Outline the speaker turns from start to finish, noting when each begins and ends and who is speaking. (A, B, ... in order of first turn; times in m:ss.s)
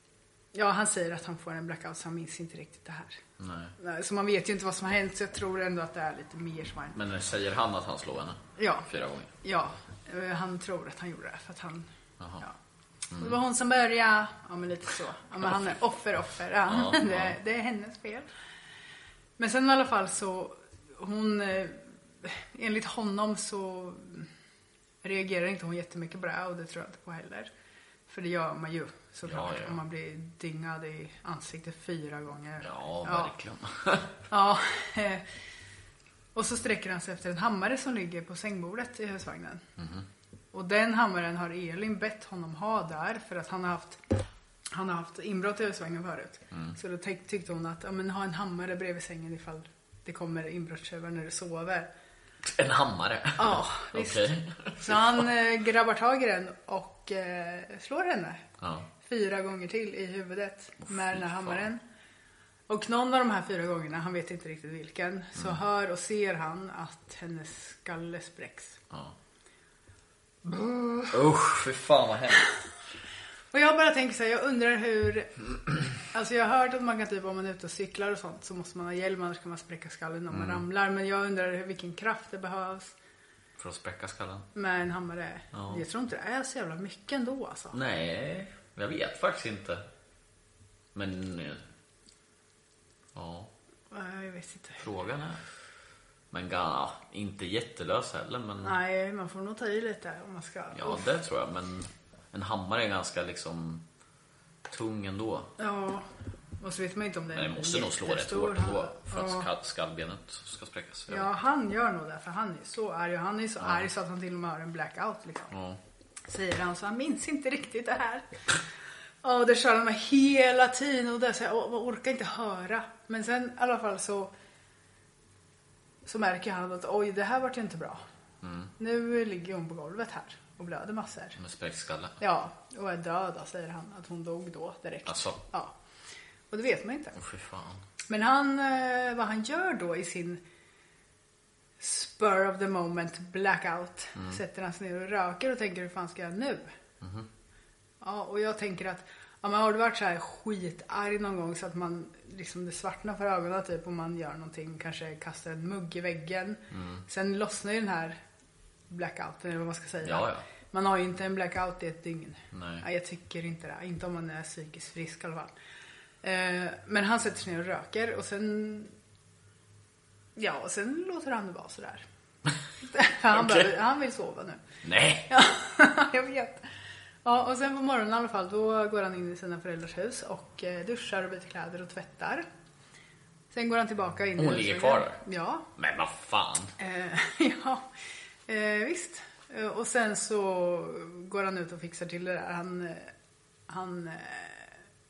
0:00.5-0:03.2 A
0:03.4-0:03.7 B
0:03.8-0:07.0 A
0:06.9-0:09.3 B
0:08.6-0:08.9 A
0:09.4-0:11.9 A
0:12.2-0:12.4 B
0:13.1-0:13.4 B
0:13.2-0:18.3 A
0:16.7-0:17.4 B
0:19.4-0:24.3 A
0:25.0-0:27.5 A
0:28.1-0:33.3 A
0:29.2-0:29.8 B
0:32.6-0:34.1 B
0:34.3-0:35.2 A
0:36.3-0:39.6 A
0:39.8-0:40.0 B
0:40.5-0:44.0 A
0:44.7-0:51.9 A
0:52.4-0:55.3 B
0:53.4-0:58.4 A
0:58.6-0:58.9 B
0:59.0-1:01.8 A
1:00.8-1:01.6 B
1:02.7-1:08.8 A
1:11.1-1:12.5 B
1:13.5-1:15.3 A
1:16.1-1:22.9 A
1:20.3-1:20.6 B
1:23.6-1:24.5 B
1:24.5-1:27.8 A
1:25.5-1:25.8 B
1:27.7-1:29.8 B
1:30.9-1:31.6 B
1:33.1-1:33.5 B
1:33.9-1:34.8 A
1:34.8-1:35.4 B
1:36.3-1:38.8 B
1:38.6-1:41.1 A
1:40.7-1:43.8 B
1:44.7-1:45.5 B
1:45.6-1:46.1 A
1:46.6-1:49.5 A
1:47.3-1:51.3 B
1:51.1-1:55.5 A
1:53.6-1:53.9 B
1:55.5-1:55.8 B
1:56.3-1:58.3 A
1:59.2-2:04.3 A
2:06.0-2:08.0 A
2:08.4-2:08.7 B
2:08.8-2:11.4 A
2:11.4-2:12.2 B
2:12.2-2:15.7 A
2:15.0-2:15.4 B
2:16.5-2:17.2 A
2:17.1-2:17.8 B
2:18.1-2:20.4 A
2:21.8-2:26.7 A
2:27.0-2:27.3 B
2:28.0-2:38.2 A
2:36.7-2:37.0 B
2:38.9-2:45.5 A
2:40.0-2:40.4 B
2:42.5-2:42.8 B
2:46.2-2:48.9 A
2:50.4-2:52.0 A
2:52.9-2:54.6 A
2:53.3-2:53.7 B
2:54.8-2:55.3 B
2:55.3-2:56.6 A
2:57.2-3:02.4 A
3:03.5-3:05.6 A
3:04.4-3:05.2 B
3:05.8-3:06.7 B
3:06.8-3:07.8 A
3:08.5-3:13.1 A
3:13.7-3:14.7 A